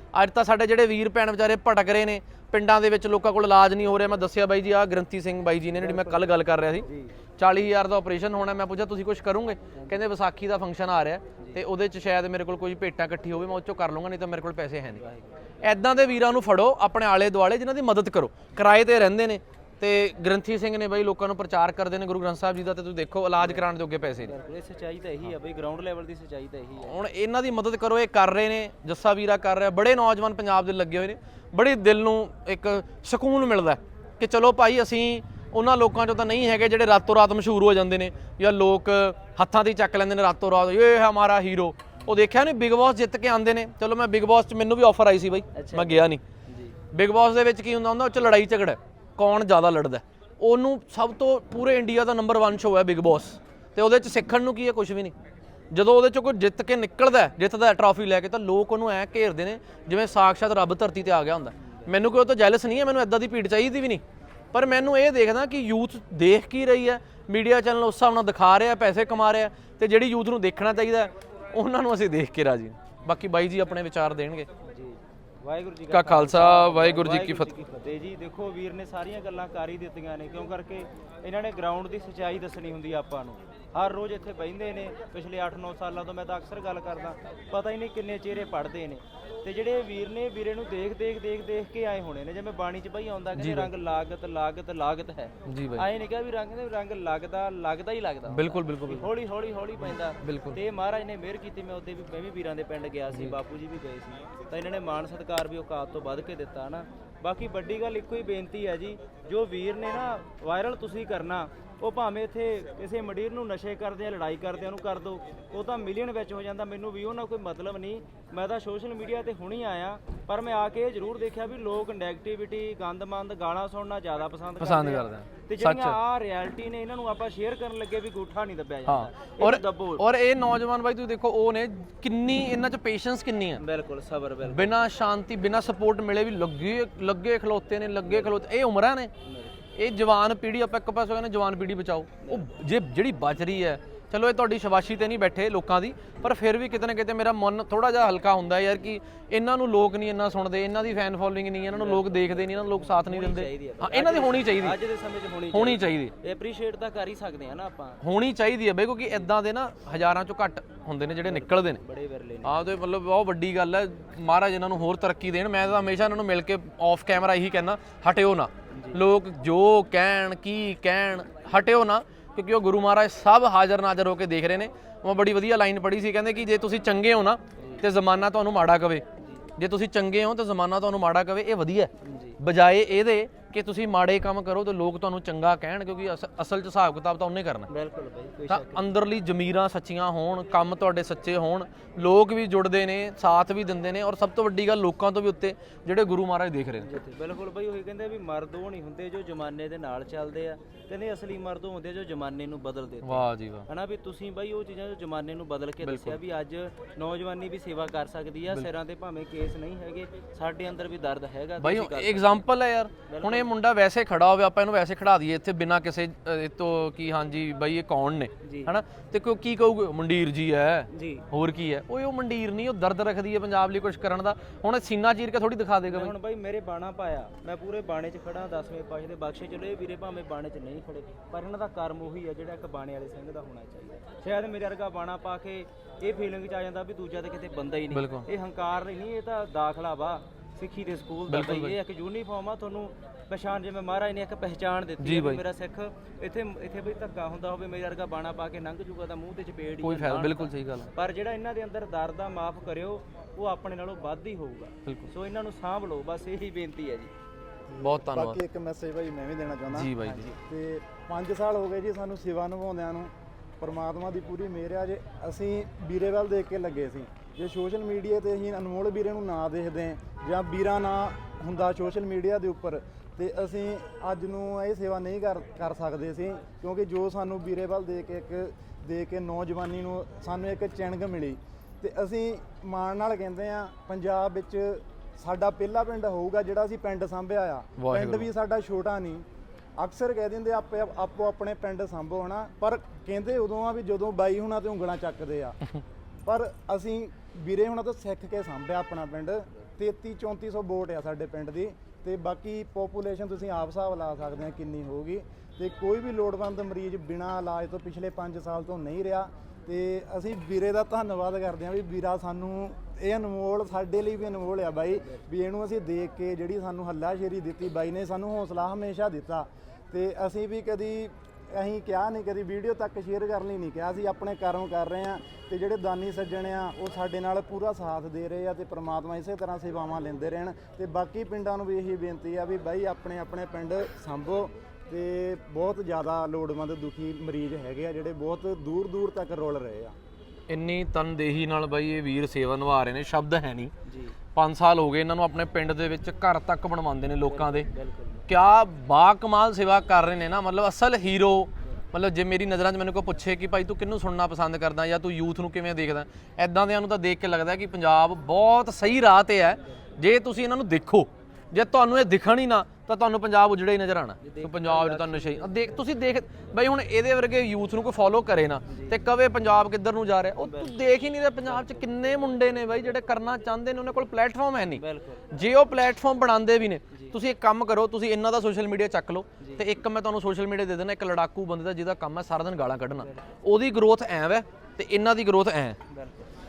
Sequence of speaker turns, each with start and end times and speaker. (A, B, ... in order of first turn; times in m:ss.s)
0:00.1-0:06.9 A
0:05.8-0:07.1 B
0:07.4-0:15.0 A
0:09.7-0:10.0 B
0:15.0-0:15.3 B
0:15.6-0:24.4 A
0:23.4-0:27.0 B
0:26.8-0:46.2 A
0:45.6-0:46.8 B
0:46.9-0:55.1 A
0:55.7-1:04.0 A
1:01.6-1:01.9 B
1:04.5-1:14.5 A
1:14.6-2:10.0 B
1:15.9-1:17.5 A
1:33.4-1:33.7 A
1:35.5-1:35.9 A
1:38.3-1:39.1 A
1:39.8-1:40.6 A
2:04.6-2:06.0 A
2:08.9-2:13.6 A
2:13.6-2:14.8 B
2:14.4-2:19.1 A
2:18.1-2:18.3 B
2:19.2-2:19.6 B
2:19.8-2:34.8 A
2:22.2-2:22.5 B
2:31.7-2:38.0 B
2:35.5-2:36.1 A
2:38.0-2:41.8 A
2:41.2-2:42.7 B
2:42.4-2:59.0 A
2:48.7-2:49.0 B
2:57.6-2:57.8 B
2:59.6-3:07.7 A
3:02.0-3:02.4 B
3:07.7-3:08.9 B
3:08.5-3:16.9 A
3:16.8-3:32.4 B
3:23.0-3:23.7 A
3:25.8-3:26.2 A
3:31.6-3:46.1 A
3:33.1-3:33.5 B
3:38.4-3:38.8 B
3:40.9-3:41.3 B
3:45.9-4:17.1 B
3:57.9-3:58.3 A
4:01.3-4:01.8 A
4:05.0-4:05.4 A
4:09.8-4:10.9 A
4:14.8-4:15.1 A
4:17.7-4:49.2 C
4:17.8-4:18.4 A
4:19.7-4:20.3 A
4:20.0-4:20.4 B
4:47.8-4:48.3 A
4:49.8-4:55.6 C
4:56.3-5:40.0 C
5:40.5-5:43.7 A
5:43.9-5:44.2 B
5:44.4-5:47.7 A
5:47.2-5:48.2 B
5:48.3-6:25.8 A
6:04.2-6:05.8 B
6:08.7-6:09.0 B
6:10.4-6:12.6 B
6:14.7-6:15.2 B
6:25.9-6:26.3 B